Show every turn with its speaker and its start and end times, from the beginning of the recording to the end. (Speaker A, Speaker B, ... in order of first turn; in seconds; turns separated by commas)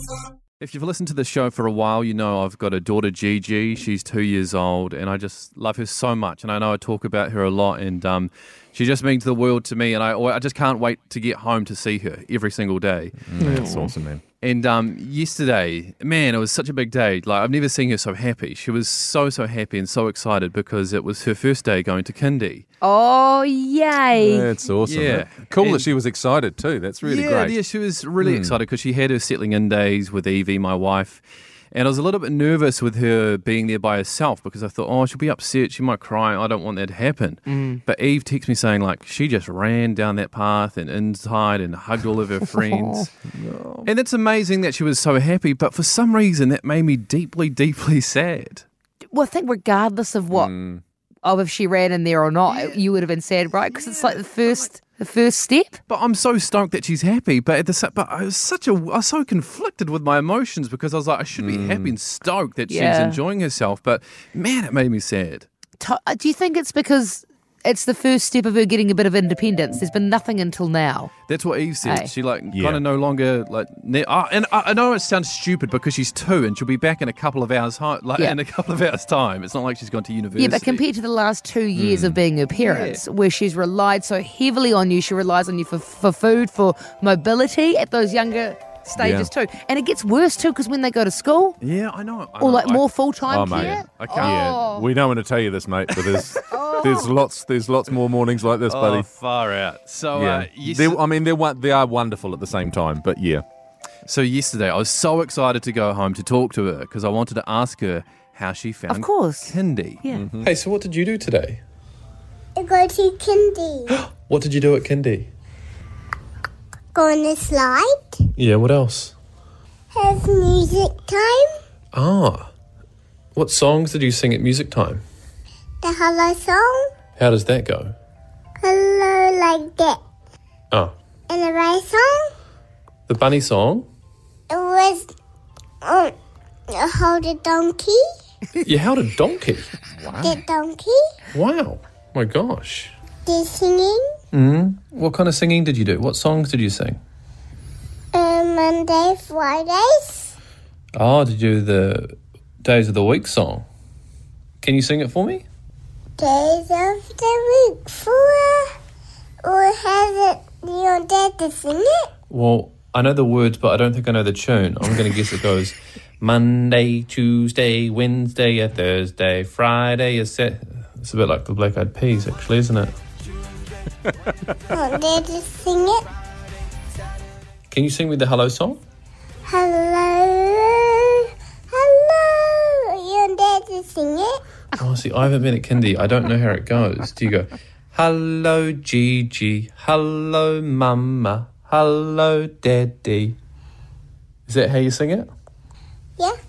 Speaker A: 0.6-13.2, Speaker B: 13.3-14.2, Speaker C: 13.4-13.9, Speaker A: 14.4-22.6, Speaker C: 22.8-24.5, Speaker B: 24.1-27.6, Speaker A: 24.9-25.9, Speaker A: 27.0-43.1, Speaker B: 28.2-28.6, Speaker C: 37.5-37.8, Speaker C: 42.5-43.0, Speaker B: 43.3-43.9, Speaker A: 43.9-48.6, Speaker C: 49.1-50.5, Speaker B: 50.3-50.8, Speaker C: 51.2-55.8, Speaker A: 52.5-52.8, Speaker A: 53.7-54.7, Speaker A: 55.9-65.5, Speaker B: 61.4-62.0, Speaker C: 62.7-63.2, Speaker C: 65.8-71.1, Speaker A: 71.3-80.8, Speaker C: 71.8-72.1, Speaker B: 72.5-72.8, Speaker C: 80.4-91.6, Speaker B: 81.8-82.2, Speaker A: 82.5-83.0, Speaker B: 89.0-89.3, Speaker A: 91.6-94.6, Speaker C: 92.4-94.9, Speaker B: 93.3-99.1, Speaker C: 96.3-97.2, Speaker A: 98.7-101.0, Speaker B: 100.1-103.4, Speaker A: 104.1-110.0, Speaker C: 108.9-110.3, Speaker B: 110.1-110.5, Speaker D: 110.4-111.6, Speaker E: 112.6-114.0, Speaker D: 114.0-115.3, Speaker E: 116.9-118.2, Speaker D: 118.4-119.2, Speaker E: 119.9-121.5, Speaker D: 121.9-122.5, Speaker D: 123.3-125.0, Speaker E: 125.8-126.9, Speaker D: 127.2-127.9, Speaker E: 128.6-130.0, Speaker E: 131.3-132.3, Speaker D: 133.1-133.9, Speaker E: 134.5-135.1, Speaker E: 135.8-136.1, Speaker E: 136.7-138.0, Speaker D: 138.6-139.7, Speaker B: 139.9-140.4, Speaker E: 140.2-141.0, Speaker D: 141.3-142.9, Speaker E: 143.3-144.1, Speaker D: 144.3-147.0, Speaker E: 148.1-150.3, Speaker D: 151.0-153.7, Speaker D: 154.6-155.4, Speaker E: 156.2-158.7, Speaker E: 159.4-162.1, Speaker D: 162.3-172.9, Speaker E: 174.7-176.1, Speaker D: 177.7-178.8, Speaker E: 179.5-184.4, Speaker D: 184.8-193.4, Speaker D: 194.5-195.3